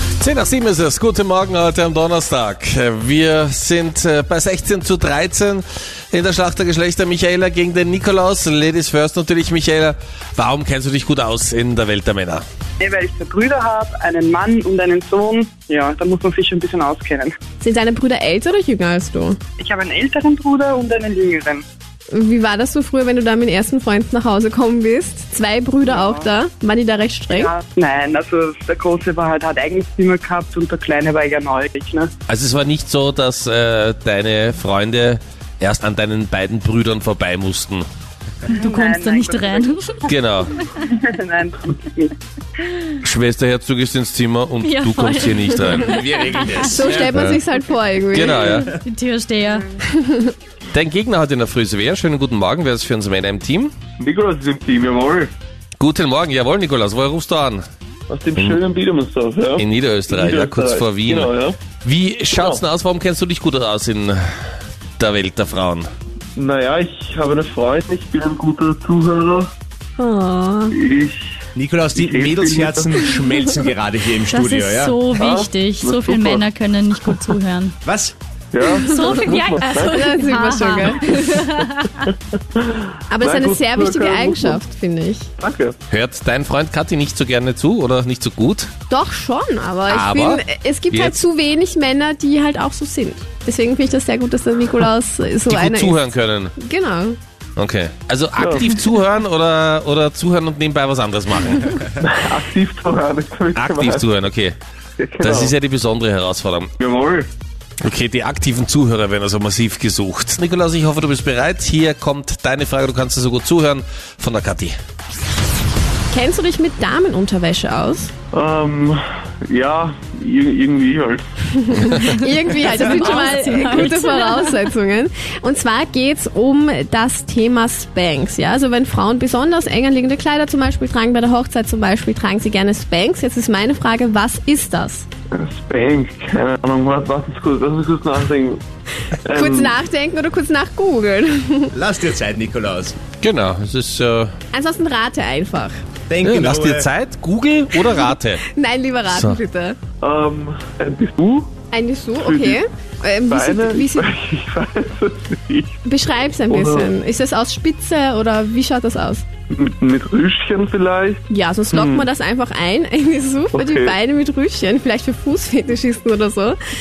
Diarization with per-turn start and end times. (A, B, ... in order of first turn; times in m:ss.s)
0:00.2-0:12.4 A
0:12.8-0:17.4 B
0:17.6-0:19.4 C
0:19.6-0:21.6 B
0:22.1-0:27.5 C
0:25.8-0:26.3 B
0:27.3-0:32.1 B
0:32.3-0:37.8 A
0:38.5-0:39.8 B
0:38.5-0:40.1 D
0:40.0-0:40.6 A
0:40.6-0:42.2 B
0:43.0-0:46.0 A
0:44.6-0:46.7 D
0:45.7-0:47.1 E
0:46.6-0:48.6 C
0:47.0-0:47.4 A
0:48.1-0:48.8 A
0:48.5-0:49.7 D
0:49.4-0:49.8 B
0:49.9-0:50.3 C
0:50.7-0:53.7 A
0:54.0-0:55.3 F
0:55.8-0:57.6 A
0:58.1-1:01.6 F
0:59.6-1:04.2 A
1:02.3-1:02.6 F
1:05.0-1:05.9 A
1:06.4-1:09.5 F
1:10.0-1:10.8 C
1:10.7-1:11.4 F
1:11.5-1:15.0 E
1:11.9-1:13.5 F
1:14.2-1:17.7 D
1:15.1-1:17.3 F
1:17.8-1:18.1 E
1:18.5-1:20.1 F
1:18.7-1:21.8 C
1:18.7-1:22.0 D
1:22.1-1:24.6 F
1:23.1-1:25.3 C
1:25.4-1:25.8 F
1:25.9-1:28.7 A
1:28.9-1:36.0 C
1:29.9-1:31.2 A
1:35.5-1:36.5 A
1:36.6-1:37.2 C
1:37.6-1:41.8 A
1:38.4-1:38.7 F
1:42.0-1:44.1 F
1:43.5-1:44.6 A
1:45.0-1:45.5 F
1:45.2-1:46.7 A
1:46.8-1:47.3 F
1:47.8-1:54.7 A
1:56.1-1:58.1 C
1:58.3-2:01.3 F
2:01.5-2:15.1 C
2:02.5-2:04.5 D
2:15.3-2:18.6 F
2:19.2-2:19.8 F
2:19.3-2:21.7 C
2:21.7-2:23.0 E
2:23.2-2:24.3 A
2:24.5-2:25.8 C
2:26.1-2:26.9 E
2:26.2-2:28.4 A
2:28.5-2:29.8 C
2:29.0-2:29.4 A
2:30.0-2:31.5 F
2:31.7-2:34.1 C
2:32.1-2:32.6 F
2:33.3-2:35.8 F
2:35.8-2:39.2 C
2:36.5-2:36.9 F
2:39.5-2:42.1 F
2:41.3-2:46.6 C
2:43.5-2:43.9 F